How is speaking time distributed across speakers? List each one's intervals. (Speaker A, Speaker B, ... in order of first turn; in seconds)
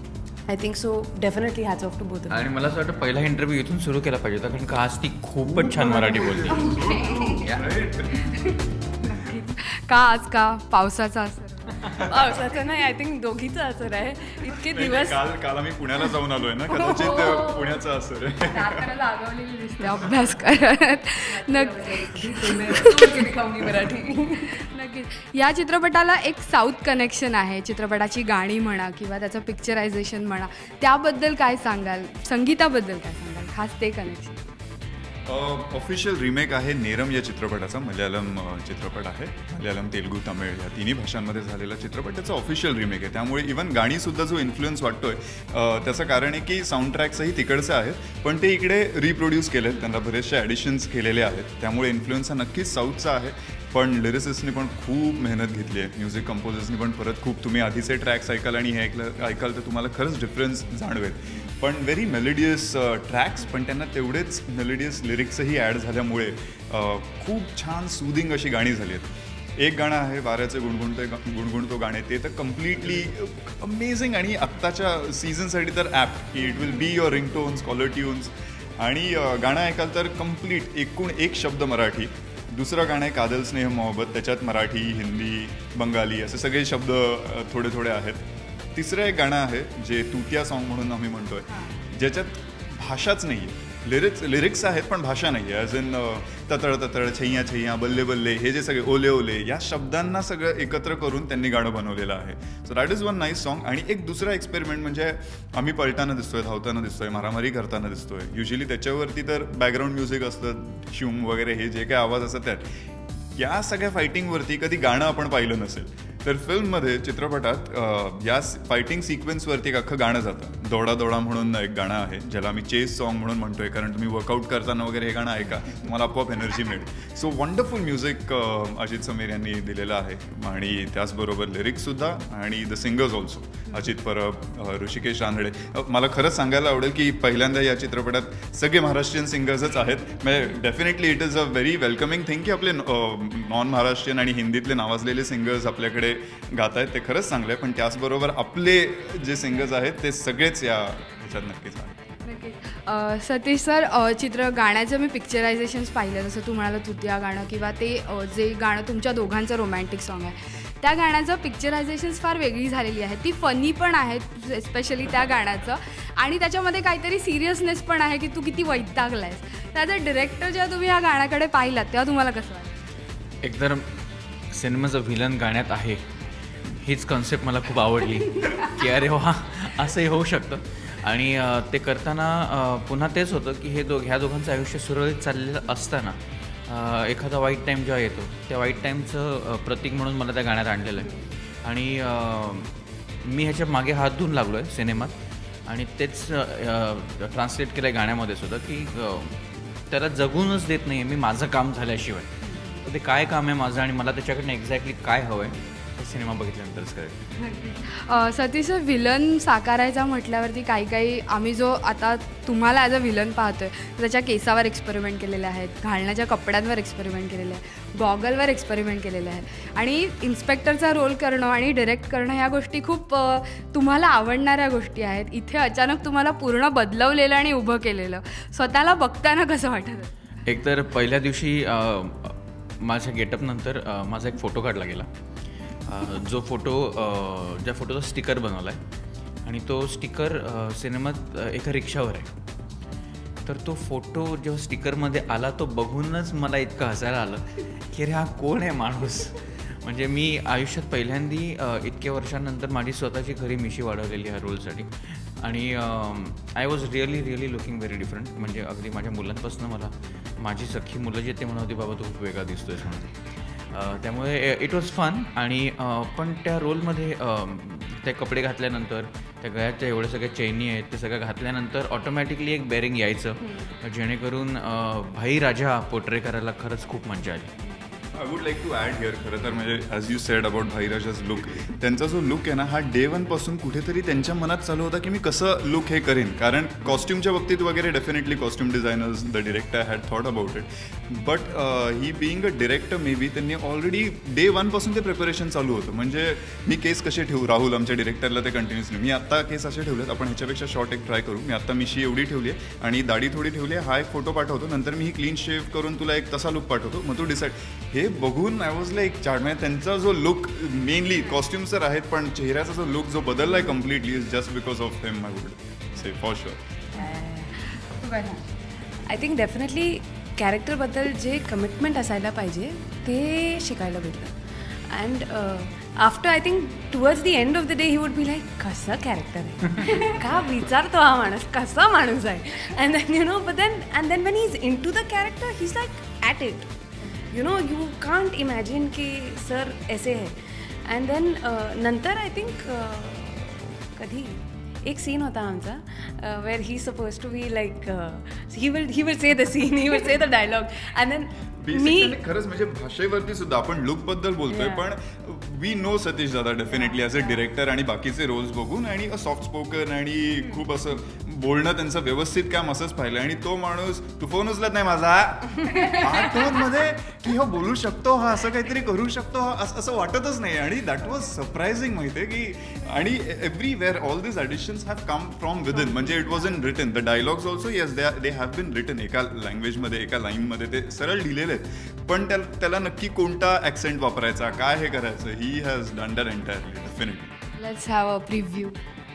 Speaker A: 0.5-2.5, 12.0-15.2, 16.7-17.4, 21.3-24.6, 316.9-317.5, 319.1-324.3, 324.9-336.7, 337.3-352.2, 354.5-354.8
Speaker B: 2.3-6.8, 7.3-7.6, 173.4-173.9, 174.5-176.1, 176.6-192.7, 193.2-207.2, 230.5-235.1, 235.9-238.8, 239.4-242.3, 243.5-263.1, 263.7-277.5
Speaker C: 5.6-8.3, 14.7-18.8, 35.3-112.7, 113.3-151.9, 278.1-316.6, 351.6-387.3
Speaker D: 6.7-7.4, 8.2-11.8, 16.9-17.9, 18.5-23.3, 24.6-34.5, 91.5-91.7, 152.2-172.8, 207.4-230.1, 317.0-318.4, 387.6-388.8